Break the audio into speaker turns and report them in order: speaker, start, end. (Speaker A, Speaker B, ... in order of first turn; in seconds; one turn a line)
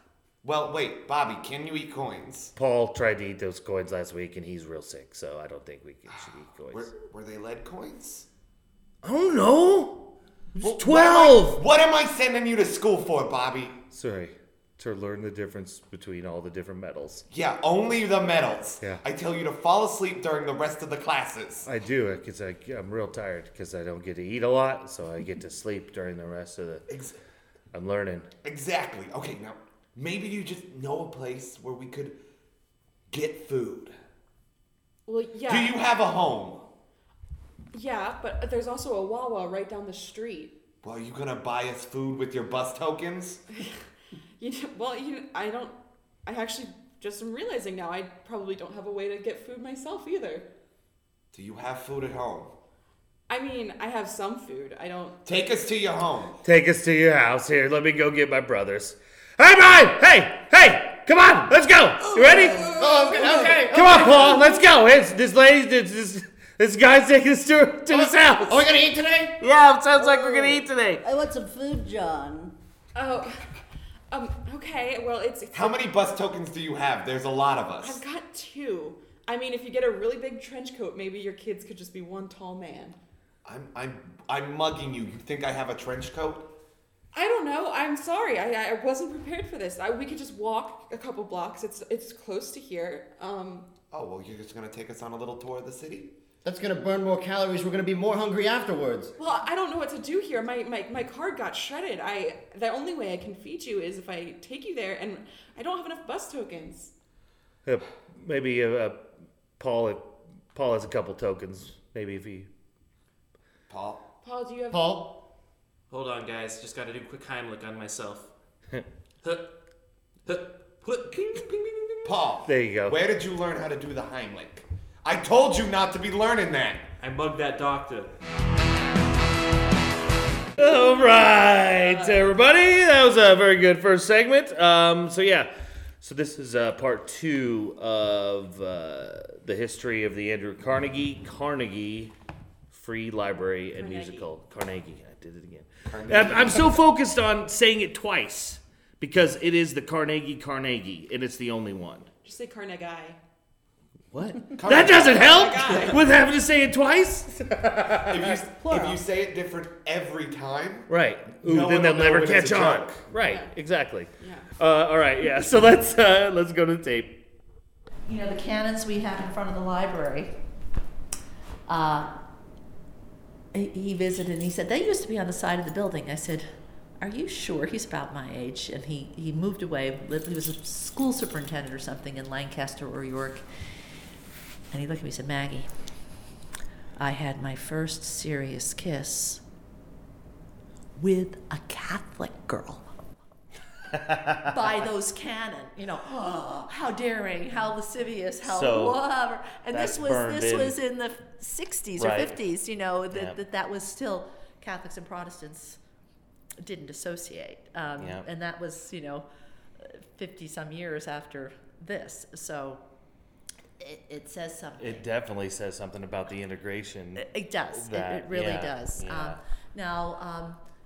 Speaker A: 0.4-2.5
Speaker B: 2.5-6.9
Speaker A: 6.1-8.3
Speaker B: 9.0-10.0
Speaker A: 10.6-13.8
Speaker B: 10.6-11.6
Speaker B: 13.9-17.2
Speaker A: 17.3-21.7
Speaker B: 21.6-26.9
Speaker A: 26.9-27.1
Speaker B: 27.7-28.3
Speaker A: 28.4-32.2
Speaker A: 33.1-33.9
Speaker C: 35.1-35.8
Speaker A: 35.5-36.6
Speaker C: 37.7-40.5
Speaker A: 40.8-43.4
Speaker C: 44.4-45.7
Speaker C: 46.2-50.5
Speaker A: 51.3-52.5
Speaker C: 53.3-55.2
Speaker A: 55.2-56.4
Speaker B: 56.4-62.7
Speaker C: 62.1-63.5
Speaker D: 62.6-63.3
Speaker E: 62.7-64.4
Speaker B: 63.4-68.7
Speaker E: 67.9-69.4
Speaker B: 69.4-71.0
Speaker D: 70.0-72.5
Speaker C: 72.9-73.5
Speaker C: 74.1-76.1
Speaker A: 75.5-78.0
Speaker C: 77.8-83.0
Speaker A: 83.4-86.5
Speaker C: 87.1-93.7
Speaker A: 93.9-96.1
Speaker E: 96.4-99.1
Speaker C: 99.2-106.9
Speaker B: 107.6-109.0
Speaker B: 109.6-112.5
Speaker A: 113.7-114.0
Speaker C: 114.2-115.0
Speaker E: 114.7-115.1
Speaker F: 115.9-118.3
Speaker F: 119.2-119.5
Speaker F: 120.2-122.1
Speaker A: 122.0-126.9
Speaker B: 122.5-123.0
Speaker F: 127.0-128.1
Speaker B: 130.6-135.5
Speaker C: 130.6-131.1
Speaker C: 131.7-132.2
Speaker B: 136.0-142.1
Speaker B: 142.7-152.1
Speaker C: 143.7-144.3
Speaker A: 145.9-146.8
Speaker C: 152.2-153.2
Speaker B: 154.1-158.4
Speaker A: 154.5-155.4
Speaker C: 155.1-156.0
Speaker A: 157.9-163.0
Speaker D: 158.5-159.0
Speaker B: 160.9-167.2
Speaker C: 163.2-163.5
Speaker C: 164.2-164.5
Speaker G: 168.1-170.3
Speaker G: 171.7-172.1
Speaker G: 173.5-183.4
Speaker G: 184.7-185.7
Speaker G: 187.0-189.4
Speaker G: 191.0-192.9
Speaker B: 193.9-194.7
Speaker G: 194.5-205.8
Speaker B: 198.4-199.0
Speaker B: 199.7-200.8
Speaker B: 202.0-202.4
Speaker B: 203.1-203.4
Speaker G: 206.6-209.3
Speaker B: 208.0-208.2
Speaker G: 209.8-212.8
Speaker G: 213.8-215.1
Speaker B: 214.8-219.4
Speaker G: 217.2-220.6